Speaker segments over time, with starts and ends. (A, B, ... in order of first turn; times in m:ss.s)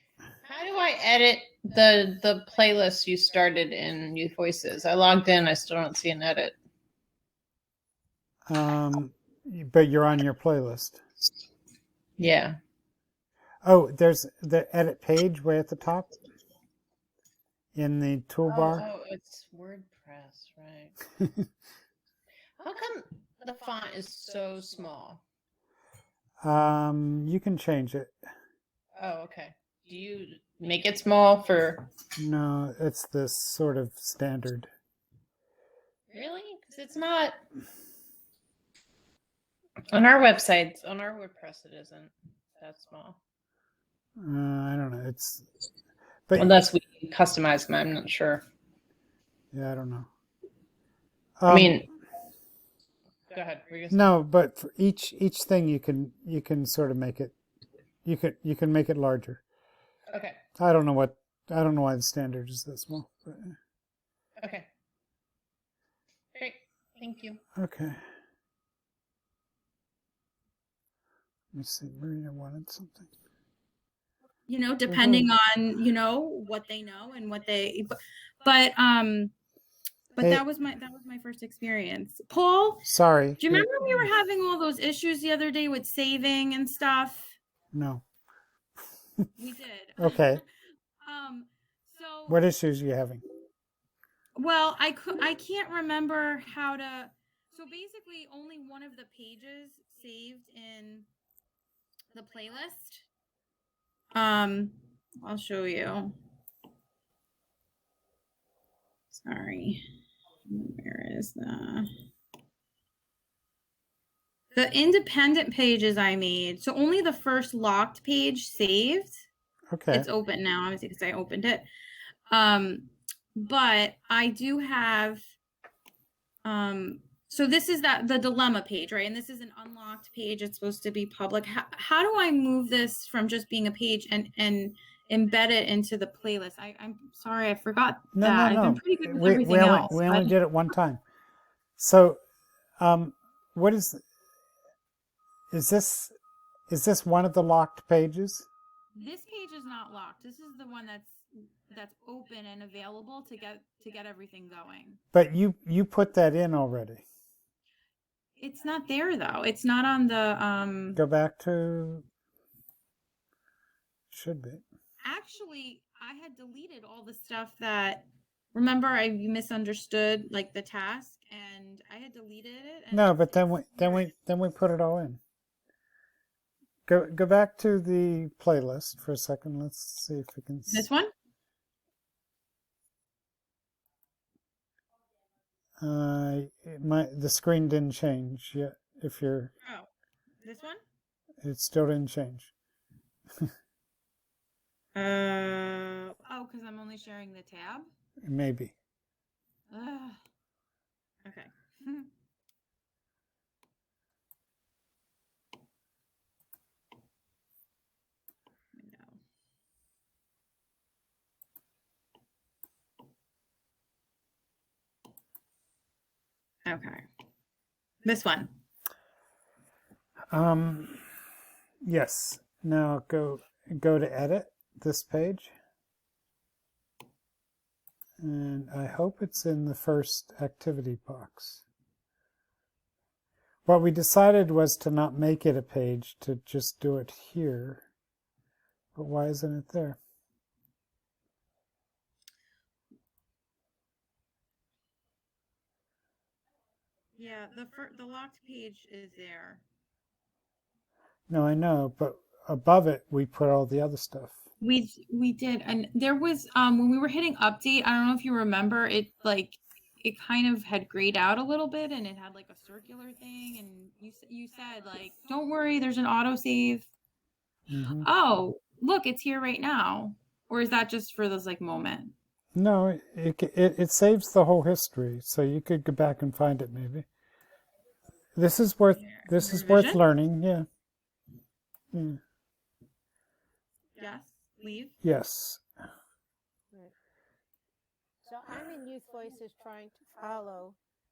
0:00.4-0:06.6 A
0:08.5-0:11.0 B
0:12.2-0:12.6 A
0:13.6-0:16.2 B
0:17.8-0:18.9 B
0:18.5-0:20.9 A
0:22.6-0:25.2 A
0:26.4-0:28.1 B
0:29.0-0:31.9 A
0:32.2-0:34.7 B
0:36.1-0:37.4 A
0:39.9-0:43.2 A
0:44.2-0:45.4 B
0:46.3-0:46.6 B
0:46.4-0:48.4 A
0:49.5-0:50.1 B
0:51.4-0:51.9 B
0:51.5-0:51.9 A
0:53.3-0:54.0 A
0:53.9-0:57.4 B
0:58.0-0:59.4 B
1:00.1-1:00.4 A
1:00.6-1:03.6 B
1:04.4-1:04.7 A
1:06.4-1:07.4 A
1:07.6-1:08.0 B
1:11.5-1:13.1 B
1:14.5-1:19.3 C
1:14.9-1:15.3 B
1:20.1-1:22.9 C
1:22.9-1:24.1 B
1:23.4-1:27.3 C
1:27.7-1:28.0 B
1:29.4-1:30.3 C
1:30.0-1:30.4 B
1:31.0-1:32.4 C
1:32.3-1:33.2 B
1:34.4-1:41.1 C
1:42.1-1:43.0 C
1:44.1-1:46.2 C
1:49.1-1:49.8 C
1:50.5-1:51.9 C
1:54.5-1:59.2 C
1:59.7-2:00.1 B
1:59.9-2:01.6 C
2:02.3-2:05.2 C
2:06.4-2:20.4 C
2:18.1-2:21.0 B
2:21.8-2:22.2 B
2:22.8-2:24.0 B
2:25.5-2:26.1 B
2:26.7-2:28.5 B
2:29.0-2:35.0 C
2:35.1-2:37.0 B
2:38.4-2:41.0 C
2:41.0-2:42.1 B
2:44.1-2:44.6 B
2:45.0-2:54.0 C
2:52.9-2:55.2 B
2:56.9-3:00.9 B
3:00.7-3:01.1 C
3:05.8-3:09.5 B
3:09.6-3:09.9 C
3:10.4-3:10.8 C
3:11.4-3:12.5 B
3:15.0-3:17.9 C
3:18.2-3:18.7 B
3:19.7-3:20.2 C
3:21.2-3:22.1 C
3:28.7-3:29.2 C
3:36.6-3:37.0 C
3:38.0-3:38.6 C
3:40.3-3:41.0 B
3:41.8-3:45.5 B
3:48.2-3:51.6 B
3:53.7-3:57.9 B
3:59.0-4:00.0 B
4:07.2-4:09.6 C
4:11.3-4:14.4 B
4:14.6-4:26.9 C
4:27.7-4:28.1 B
4:28.0-4:32.1 C
4:32.6-4:37.1 B
4:38.4-4:40.7 B
4:39.0-4:40.0 C
4:41.9-4:42.2 B
4:44.0-4:45.0 C
4:45.0-4:45.6 B
4:48.2-4:50.8 D